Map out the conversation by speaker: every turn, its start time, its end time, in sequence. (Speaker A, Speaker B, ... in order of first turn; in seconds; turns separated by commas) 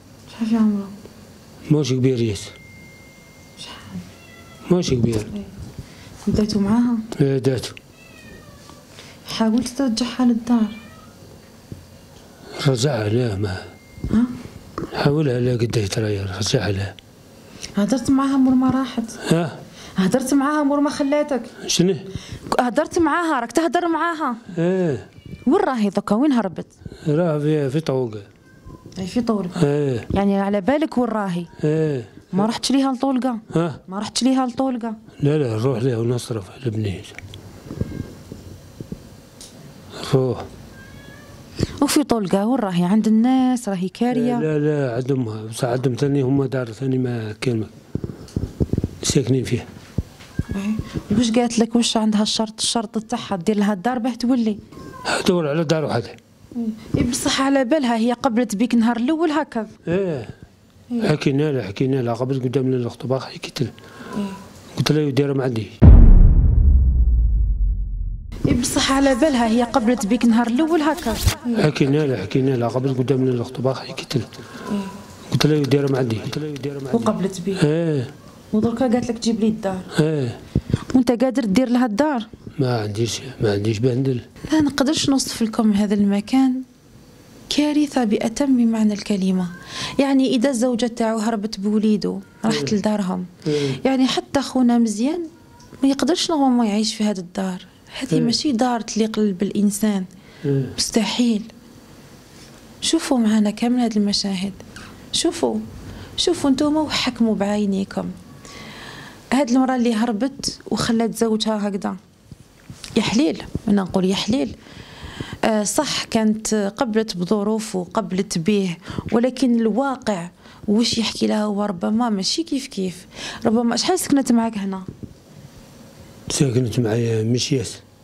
Speaker A: 0.3-0.9, Speaker B: 1.7-2.5, Speaker A: 3.6-4.0, Speaker B: 4.7-5.3, Speaker A: 6.2-7.1, Speaker B: 7.2-7.8, Speaker A: 9.3-10.8, Speaker B: 12.6-13.7, Speaker B: 14.9-16.9, Speaker A: 17.8-19.2, Speaker B: 19.2-19.6, Speaker A: 20.0-21.5, Speaker B: 21.6-22.1, Speaker A: 22.5-24.4, Speaker B: 24.5-25.1, Speaker A: 25.5-26.7, Speaker B: 27.1-28.3, Speaker A: 29.0-31.5, Speaker B: 29.6-30.1, Speaker B: 31.6-32.5, Speaker A: 32.3-35.0, Speaker B: 33.5-33.8, Speaker B: 35.2-37.2, Speaker B: 40.0-40.5, Speaker A: 41.8-44.5, Speaker B: 44.1-47.7, Speaker B: 49.0-49.7, Speaker A: 50.5-54.6, Speaker B: 55.1-56.2, Speaker A: 56.6-59.7, Speaker B: 59.9-60.3, Speaker B: 61.0-63.7, Speaker A: 64.1-64.4, Speaker B: 64.8-65.8, Speaker A: 68.5-71.7, Speaker B: 71.6-74.3, Speaker A: 74.7-74.9, Speaker B: 75.3-78.1, Speaker A: 76.9-77.7, Speaker A: 78.5-79.9, Speaker B: 79.9-80.4, Speaker A: 80.9-82.3, Speaker B: 82.6-84.2, Speaker A: 84.5-86.6, Speaker A: 87.5-95.3, Speaker B: 92.5-92.8, Speaker B: 93.5-93.8, Speaker A: 95.8-100.1, Speaker B: 98.1-98.4, Speaker B: 100.4-100.7, Speaker A: 100.8-101.5, Speaker A: 102.8-104.6, Speaker A: 105.1-105.6, Speaker A: 106.2-108.1, Speaker A: 109.3-112.0, Speaker A: 113.0-114.5, Speaker A: 115.4-124.9, Speaker B: 126.3-127.8